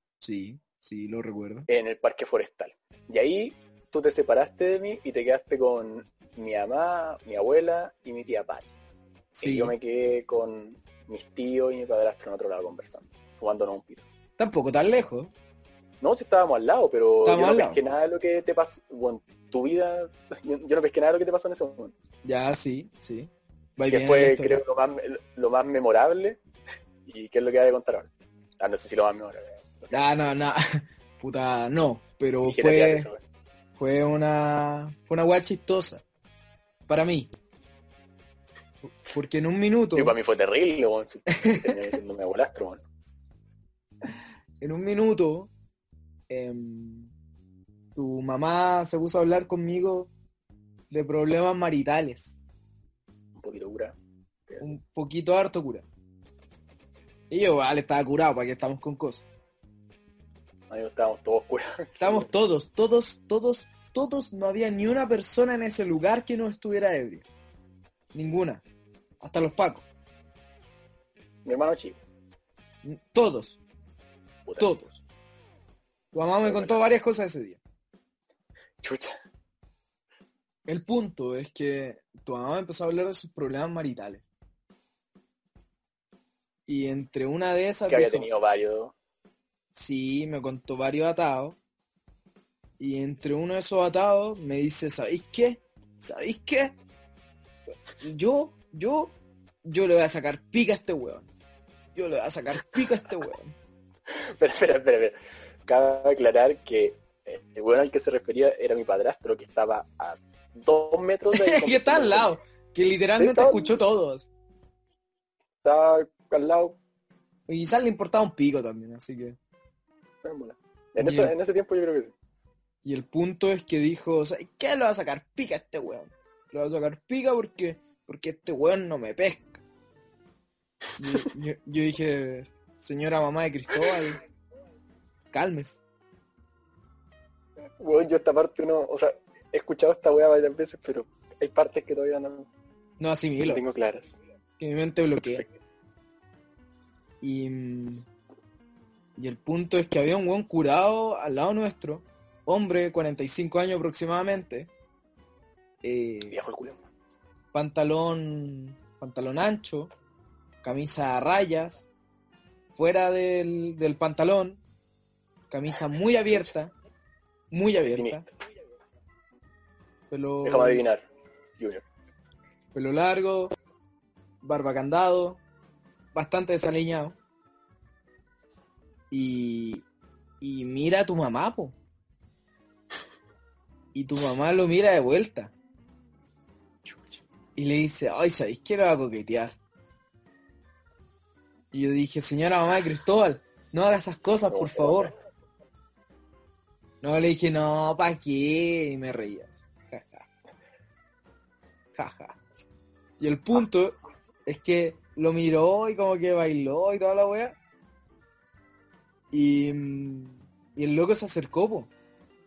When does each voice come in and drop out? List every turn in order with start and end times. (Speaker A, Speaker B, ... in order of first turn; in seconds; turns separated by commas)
Speaker A: 0.2-1.7, Speaker B: 1.7-8.7, Speaker B: 9.3-14.0, Speaker A: 9.4-9.8, Speaker A: 14.4-15.3, Speaker B: 16.0-21.9, Speaker A: 17.2-17.8, Speaker A: 22.2-24.6, Speaker B: 23.9-26.4, Speaker B: 27.1-30.0, Speaker A: 29.9-33.1, Speaker B: 32.4-33.2, Speaker A: 33.8-36.0, Speaker A: 36.9-37.3, Speaker A: 38.8-40.1, Speaker B: 40.0-42.8, Speaker A: 41.3-41.7, Speaker A: 44.6-45.5, Speaker A: 46.3-47.1, Speaker A: 48.0-50.1, Speaker A: 50.9-52.4, Speaker B: 53.4-54.0, Speaker A: 54.6-55.9, Speaker A: 57.3-59.3, Speaker B: 60.7-62.3, Speaker A: 62.0-67.3, Speaker A: 68.1-68.6, Speaker A: 69.2-69.8, Speaker B: 71.5-72.0, Speaker A: 72.8-73.6, Speaker A: 74.6-75.0, Speaker A: 76.1-77.6, Speaker B: 76.5-76.8, Speaker B: 78.8-79.2, Speaker A: 80.7-84.2, Speaker A: 86.7-88.3, Speaker B: 87.9-88.9, Speaker A: 89.8-91.6, Speaker A: 92.8-96.8, Speaker A: 98.0-101.3, Speaker A: 102.0-103.5, Speaker B: 104.1-112.4, Speaker A: 111.3-114.3, Speaker B: 113.2-113.8, Speaker B: 115.6-116.8, Speaker A: 117.5-119.4, Speaker B: 120.2-122.1, Speaker A: 121.0-121.3, Speaker A: 122.8-129.6, Speaker A: 131.0-134.2, Speaker A: 135.3-135.8, Speaker B: 137.8-142.5, Speaker A: 143.0-143.7, Speaker B: 143.4-144.2, Speaker A: 144.6-145.4, Speaker A: 147.2-148.1, Speaker A: 149.2-154.7, Speaker A: 155.8-156.4, Speaker B: 156.3-156.8, Speaker A: 157.5-159.9, Speaker A: 160.6-161.9, Speaker A: 162.8-164.6, Speaker A: 165.5-166.7, Speaker A: 167.5-168.3, Speaker B: 167.8-168.3, Speaker A: 170.1-170.8, Speaker B: 170.4-171.1, Speaker B: 171.6-171.8, Speaker A: 172.7-173.5, Speaker A: 174.4-175.4, Speaker A: 176.1-177.2, Speaker A: 179.1-179.8, Speaker A: 180.4-181.8, Speaker A: 183.9-185.5, Speaker B: 186.8-187.2, Speaker A: 187.6-189.6, Speaker A: 191.7-195.1, Speaker B: 194.5-195.1, Speaker A: 197.0-200.2, Speaker A: 202.0-202.4, Speaker A: 203.2-207.6, Speaker A: 209.3-211.9